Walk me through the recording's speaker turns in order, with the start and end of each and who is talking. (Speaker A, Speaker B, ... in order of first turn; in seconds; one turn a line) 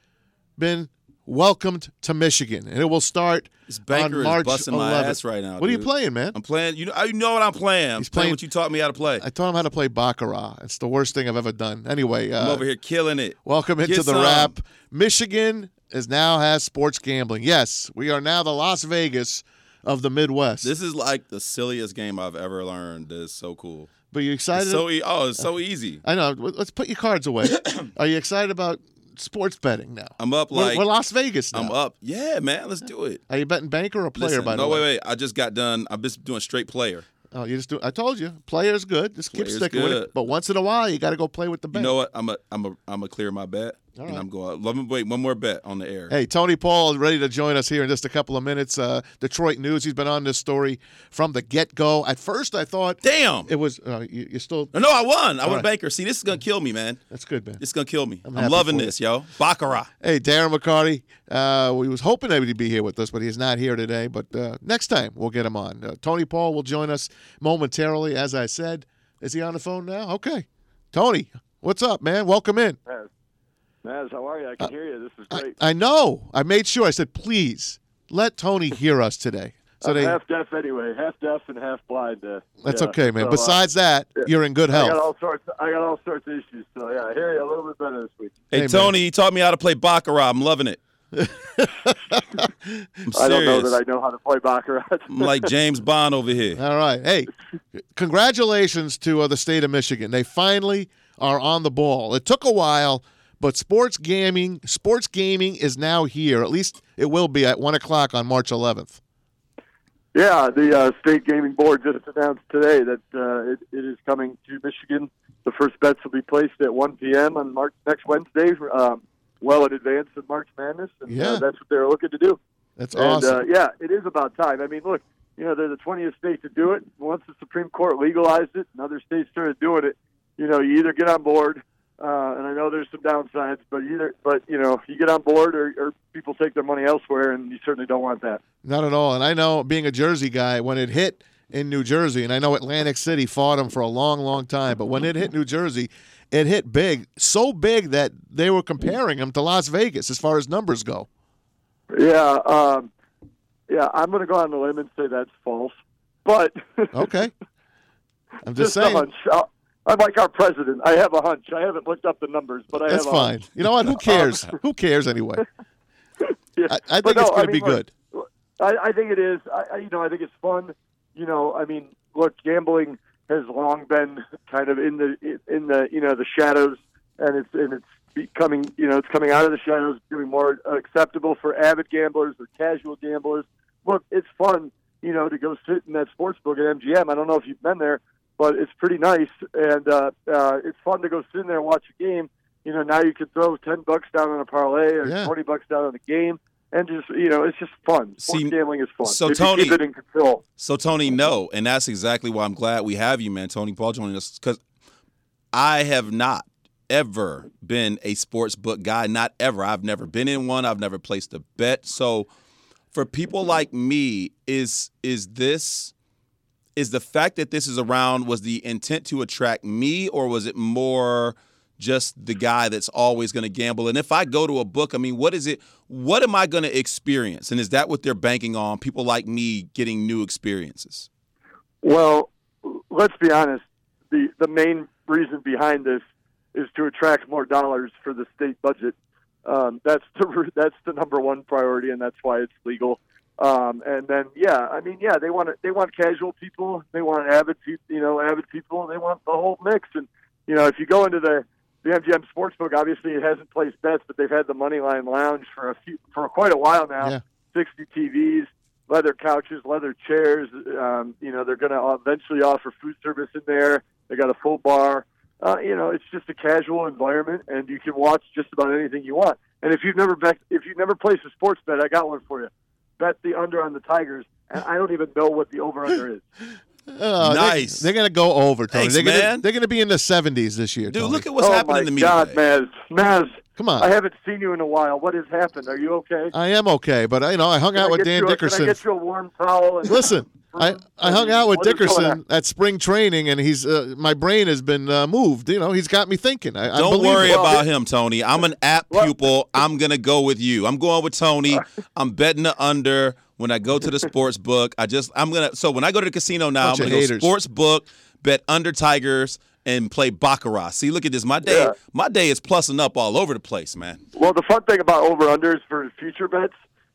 Speaker A: 0.6-6.4
Speaker B: 3.7-9.2
Speaker A: 8.0-8.4
Speaker A: 9.2-12.6
Speaker B: 12.4-14.5
Speaker A: 13.4-20.7
Speaker B: 20.6-23.9
Speaker A: 24.1-24.9
Speaker B: 24.5-26.0
Speaker A: 26.0-31.7
Speaker B: 27.5-27.9
Speaker B: 30.2-30.9
Speaker B: 31.5-33.2
Speaker A: 33.3-34.9
Speaker B: 34.2-37.1
Speaker A: 37.3-42.0
Speaker B: 39.3-40.1
Speaker B: 41.7-46.1
Speaker A: 44.0-44.3
Speaker A: 46.1-54.7
Speaker B: 53.0-53.5
Speaker B: 54.7-57.0
Speaker A: 57.1-57.6
Speaker B: 57.6-59.9
Speaker A: 58.2-58.9
Speaker A: 60.0-72.8
Speaker C: 73.8-75.5
Speaker A: 75.3-80.2
Speaker C: 79.8-83.6
Speaker A: 82.6-85.0
Speaker C: 84.2-88.4
Speaker B: 88.5-90.8
Speaker A: 88.5-88.9
Speaker A: 91.1-92.9
Speaker B: 93.1-93.8
Speaker C: 93.1-95.5
Speaker B: 95.1-96.6
Speaker A: 96.6-97.3
Speaker A: 97.9-109.0
Speaker C: 110.1-122.4
Speaker A: 121.1-121.5
Speaker A: 122.8-123.4
Speaker C: 122.9-138.4
Speaker A: 138.6-151.1
Speaker C: 151.9-152.9
Speaker C: 153.7-157.1
Speaker A: 156.9-157.3
Speaker A: 158.4-159.1
Speaker C: 158.6-163.4
Speaker A: 162.7-165.4
Speaker C: 164.1-164.4
Speaker C: 166.2-200.4
Speaker A: 166.7-167.9
Speaker A: 195.1-195.3
Speaker B: 198.2-199.8
Speaker B: 200.6-204.6
Speaker B: 205.5-212.3
Speaker B: 212.9-215.9
Speaker B: 216.8-231.1
Speaker C: 231.8-236.0
Speaker C: 236.5-238.9
Speaker C: 239.4-276.2
Speaker A: 276.9-281.3
Speaker B: 277.2-277.9
Speaker B: 278.7-279.4
Speaker B: 280.9-282.4
Speaker C: 281.4-286.3
Speaker A: 283.6-283.9
Speaker A: 286.3-288.8
Speaker C: 287.8-292.2
Speaker A: 289.9-297.6
Speaker B: 296.7-314.0
Speaker C: 297.3-297.6
Speaker A: 306.6-307.3
Speaker C: 311.4-311.7
Speaker C: 314.1-316.6